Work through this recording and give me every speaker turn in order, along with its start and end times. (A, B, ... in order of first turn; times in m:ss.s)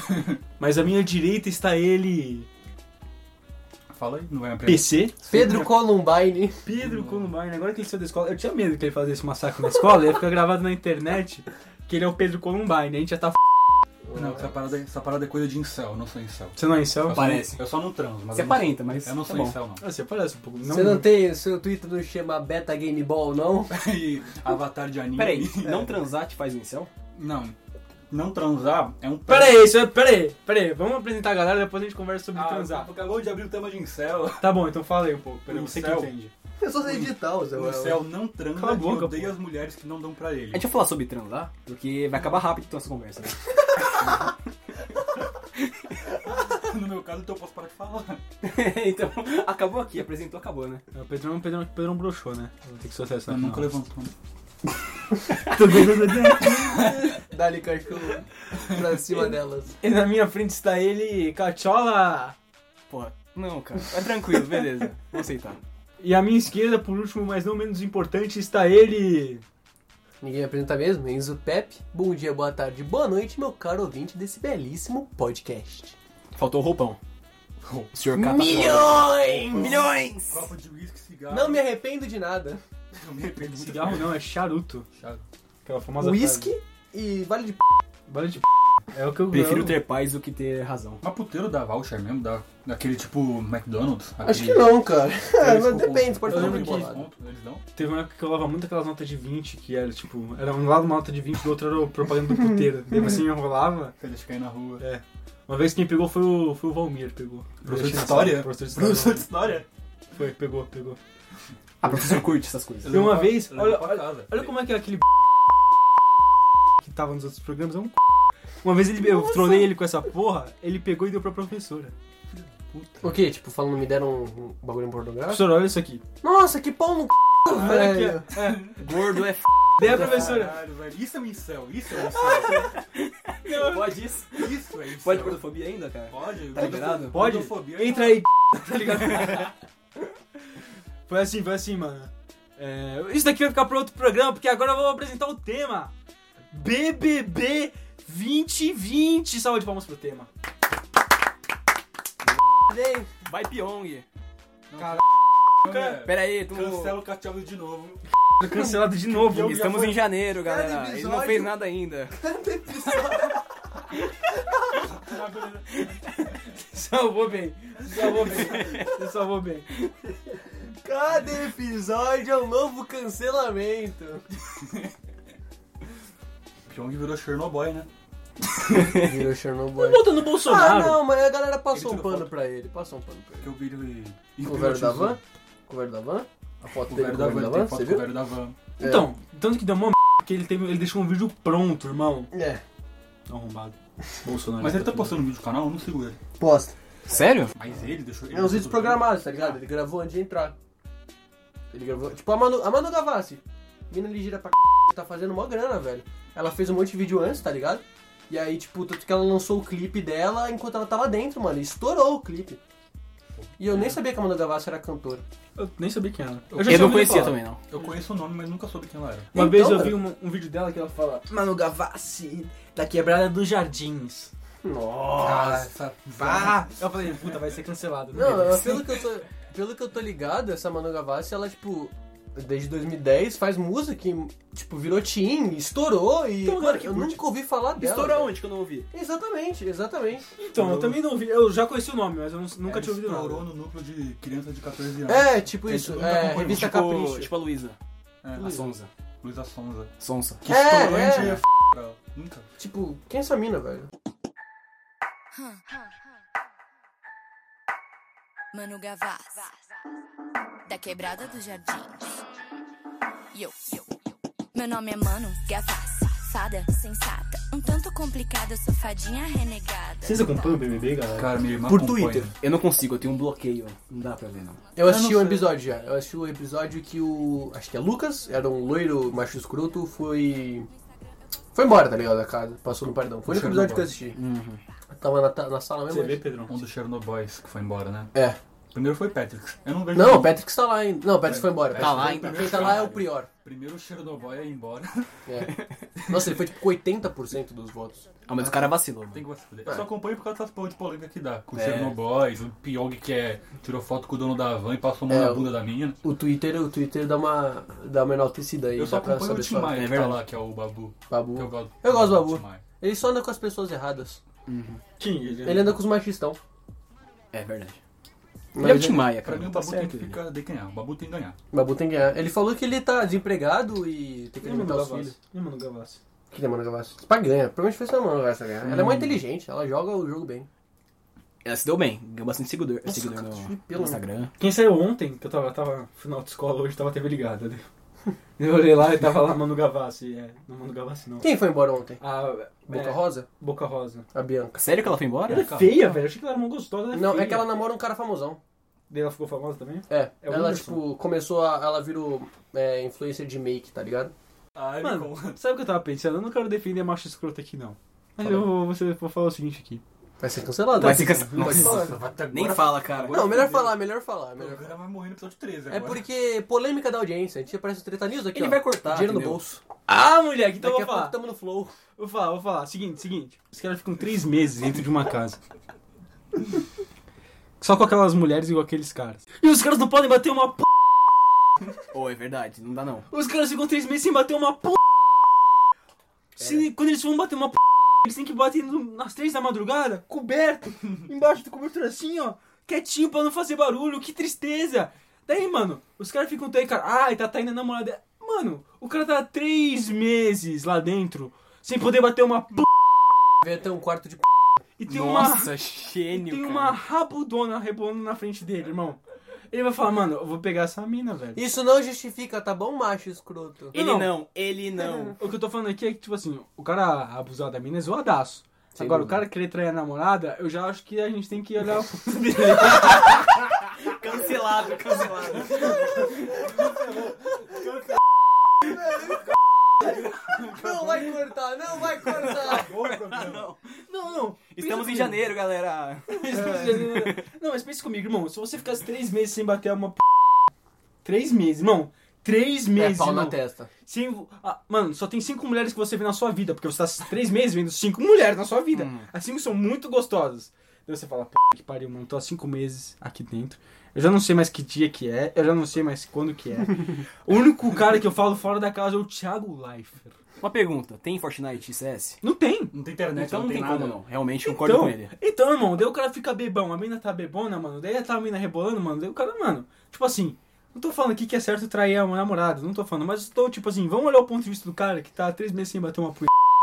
0:00.6-0:02.5 A
0:03.9-0:05.5 B
0:04.7-0:05.2 A
0:05.3-0:06.6 C
0:06.6-0:13.4 A
0:06.7-0:07.4 B
0:14.1-0:14.5 C
0:14.1-0:19.9 B
0:16.6-0:17.2 A
0:17.1-0:17.7 D
0:18.3-0:19.6 D
0:19.8-0:21.1 A
0:20.6-0:23.8 C
0:23.7-0:26.0 B
0:25.2-0:26.9 D
0:27.2-0:27.6 B
0:28.1-0:29.7 B
0:29.3-0:32.9 A
0:32.3-0:34.7 B
0:34.4-0:36.3 A
0:35.5-0:36.1 B
0:36.6-0:38.0 C
0:36.8-0:40.7 B
0:38.5-0:39.4 A
0:40.5-0:44.3 D
0:42.2-0:42.5 B
0:46.3-0:48.2 B
0:48.4-0:50.8 D
0:50.9-0:53.7 A
0:53.3-0:54.1 B
0:55.4-0:57.2 A
0:57.2-0:59.8 C
0:59.8-1:02.4 A
1:02.9-1:05.6 D
1:06.0-1:09.4 A
1:10.2-1:16.0 C
1:16.4-1:17.0 D
1:17.6-1:21.7 B
1:17.9-1:20.5 D
1:18.1-1:19.8 C
1:21.3-1:22.6 C
1:23.0-1:24.2 B
1:23.4-1:24.9 A
1:24.9-1:25.2 B
1:25.6-1:26.5 A
1:26.0-1:27.8 C
1:28.1-1:29.8 A
1:29.3-1:31.0 D
1:31.0-1:37.7 B
1:34.2-1:37.1 C
1:36.3-1:36.9 A
1:37.7-1:44.0 A
1:44.0-1:44.8 B
1:44.8-1:49.3 A
1:47.6-1:49.7 B
1:50.2-1:51.0 A
1:51.8-1:53.1 D
1:52.8-1:54.3 B
1:52.9-1:55.0 A
1:56.8-1:58.0 A
1:58.6-2:01.9 A
1:59.0-1:59.7 C
2:02.3-2:03.2 B
2:03.0-2:05.6 C
2:05.3-2:06.0 A
2:06.2-2:08.4 C
2:07.5-2:08.7 A
2:08.4-2:08.8 B
2:08.8-2:10.1 D
2:09.8-2:10.6 A
2:09.8-2:12.7 B
2:12.0-2:17.2 D
2:12.2-2:12.6 A
2:13.4-2:14.0 A
2:14.4-2:15.6 B
2:16.1-2:18.2 B
2:16.9-2:19.5 A
2:21.1-2:25.9 A
2:26.5-2:30.3 A
2:32.7-2:33.1 C
2:33.2-2:34.1 D
2:34.7-2:35.0 B
2:35.6-2:38.0 B
2:35.7-2:35.9 A
2:36.0-2:37.0 D
2:38.4-2:39.8 A
2:38.9-2:40.2 B
2:39.4-2:42.2 D
2:40.4-2:41.5 C
2:42.1-2:43.6 C
2:44.8-2:45.7 B
2:46.4-2:49.7 A
2:48.2-2:48.9 D
2:48.4-2:48.8 B
2:50.6-2:54.3 C
2:54.5-2:54.9 B
2:56.7-2:57.9 B
2:58.7-3:03.6 C
2:59.8-3:01.0 A
3:01.7-3:02.3 B
3:03.4-3:05.2 B
3:04.4-3:08.1 C
3:06.8-3:08.6 B
3:08.8-3:09.1 C
3:08.8-3:12.3 A
3:12.3-3:12.6 C
3:13.3-3:15.2 A
3:14.6-3:16.2 B
3:16.4-3:16.7 C
3:17.0-3:17.5 D
3:17.6-3:19.6 B
3:18.3-3:20.6 C
3:21.7-3:32.6 C
3:33.4-3:34.0 B
3:33.6-3:35.2 C
3:35.6-3:37.4 A
3:36.5-3:39.3 B
3:36.6-3:37.6 D
3:39.3-3:44.3 A
3:39.3-3:40.0 C
3:44.6-3:45.7 C
3:45.2-3:46.6 B
3:46.2-3:48.7 A
3:48.1-3:58.4 C
3:48.4-3:49.0 D
3:56.4-3:57.2 A
3:57.8-3:58.9 D
3:58.9-4:01.0 C
4:00.4-4:03.5 A
4:02.6-4:05.5 B
4:05.1-4:07.3 C
4:05.6-4:07.8 D
4:08.2-4:08.6 B
4:08.3-4:08.9 D
4:09.2-4:09.9 B
4:10.0-4:10.4 D
4:10.4-4:12.5 B
4:10.5-4:11.4 C
4:12.6-4:13.9 C
4:15.3-4:16.0 E
4:18.5-4:19.6 E
4:20.7-4:22.2 E
4:23.3-4:23.9 E
4:24.5-4:30.5 E
4:30.0-4:31.4 A
4:31.2-4:32.3 B
4:31.6-4:32.3 C
4:32.4-4:34.6 D
4:34.8-4:40.7 C
4:34.8-4:35.6 B
4:41.6-4:44.2 C
4:43.2-4:43.9 B
4:44.2-4:44.6 D
4:45.0-4:46.3 C
4:45.9-4:46.5 A
4:46.4-4:48.2 B
4:48.1-4:48.4 C
4:48.7-4:50.4 B
4:49.9-4:53.3 C
4:51.2-4:55.1 B
4:51.8-4:53.1 D
4:55.3-4:55.5 C
4:56.1-4:58.0 C
4:58.3-4:59.3 D
4:59.1-5:06.0 B
5:01.5-5:02.0 D
5:05.1-5:09.8 C
5:08.8-5:12.6 B
5:09.7-5:10.2 D
5:11.1-5:14.2 C
5:14.5-5:14.8 D
5:15.0-5:15.7 A
5:15.4-5:16.4 C
5:17.3-5:17.8 D
5:18.6-5:19.1 C
5:18.6-5:20.2 D
5:19.0-5:21.4 B
5:21.5-5:25.2 C
5:24.4-5:26.0 A
5:26.3-5:30.5 C
5:31.4-5:34.3 D
5:32.8-5:34.0 C
5:34.4-5:37.6 A
5:38.4-5:41.3 A
5:41.2-5:42.0 C
5:42.0-5:44.0 A
5:42.7-5:43.3 C
5:44.1-5:44.6 C
5:44.6-5:45.5 D
5:45.3-5:46.0 B
5:45.3-5:47.5 A
5:46.9-5:48.4 C
5:48.9-5:50.8 A
5:49.9-5:54.1 C
5:54.6-5:55.4 B
5:54.8-5:59.8 A
6:00.2-6:02.0 C
6:00.8-6:03.4 D
6:00.8-6:01.8 A
6:01.4-6:03.8 B
6:03.1-6:04.6 C
6:04.4-6:06.0 B
6:05.7-6:09.6 C
6:08.3-6:09.4 D
6:09.9-6:11.2 A
6:10.6-6:11.7 C
6:12.0-6:15.4 A
6:17.6-6:20.7 A
6:21.9-6:23.1 D
6:23.1-6:24.8 A
6:26.4-6:42.7 A
6:43.4-6:44.2 C
6:44.8-6:45.5 A
6:44.9-6:46.8 D
6:46.1-6:51.4 A
6:51.4-6:53.8 C
6:53.7-6:55.2 D
6:53.8-6:54.2 A
6:55.2-7:03.1 A
6:58.8-6:59.2 C
7:02.7-7:03.2 D
7:03.8-7:06.0 D
7:08.6-7:09.2 C
7:09.8-7:12.8 C
7:12.1-7:13.6 D
7:12.4-7:13.5 B
7:13.8-7:15.3 A
7:14.5-7:17.3 D
7:16.1-7:20.0 A
7:21.0-7:40.2 A
7:22.8-7:23.7 C
7:28.7-7:29.1 D
7:40.4-7:42.2 D
7:42.2-7:42.7 A
7:42.7-7:44.0 B
7:43.2-7:45.1 D
7:44.5-7:56.3 A